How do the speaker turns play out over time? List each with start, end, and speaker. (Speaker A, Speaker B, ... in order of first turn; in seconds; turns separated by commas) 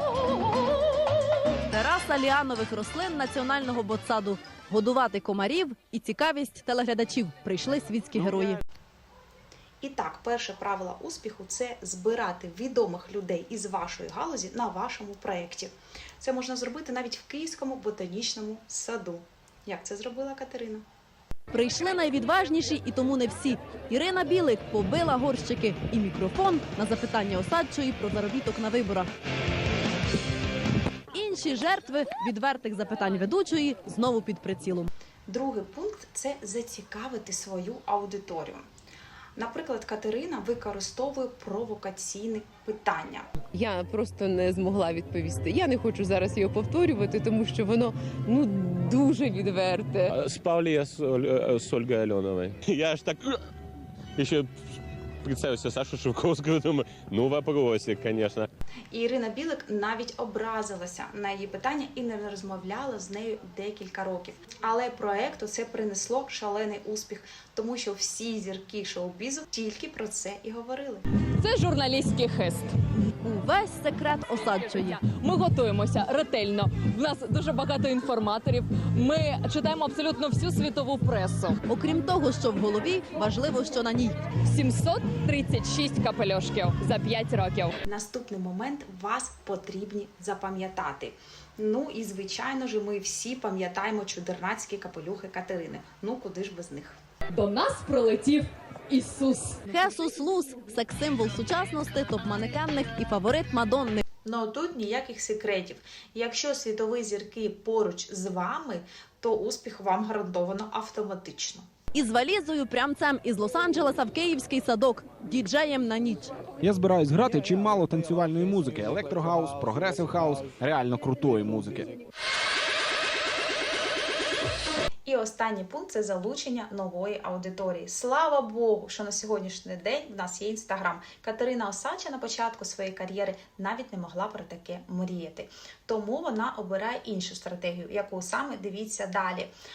Speaker A: 1.7-8.6, Speaker B: 9.8-20.8, Speaker A: 21.5-29.1, Speaker A: 31.1-34.9, Speaker B: 35.3-38.6, Speaker B: 39.4-43.3, Speaker C: 43.5-50.1, Speaker D: 50.1-53.5, Speaker D: 54.2-58.5, Speaker B: 58.9-71.0, Speaker E: 71.4-72.7, Speaker A: 73.2-75.0, Speaker E: 74.7-81.6, Speaker A: 81.7-84.2, Speaker E: 84.4-87.8, Speaker B: 87.8-97.0, Speaker E: 97.3-99.6, Speaker A: 99.7-104.0, Speaker B: 104.2-111.7, Speaker A: 111.9-116.3, Speaker F: 116.6-121.9, Speaker B: 125.0-139.5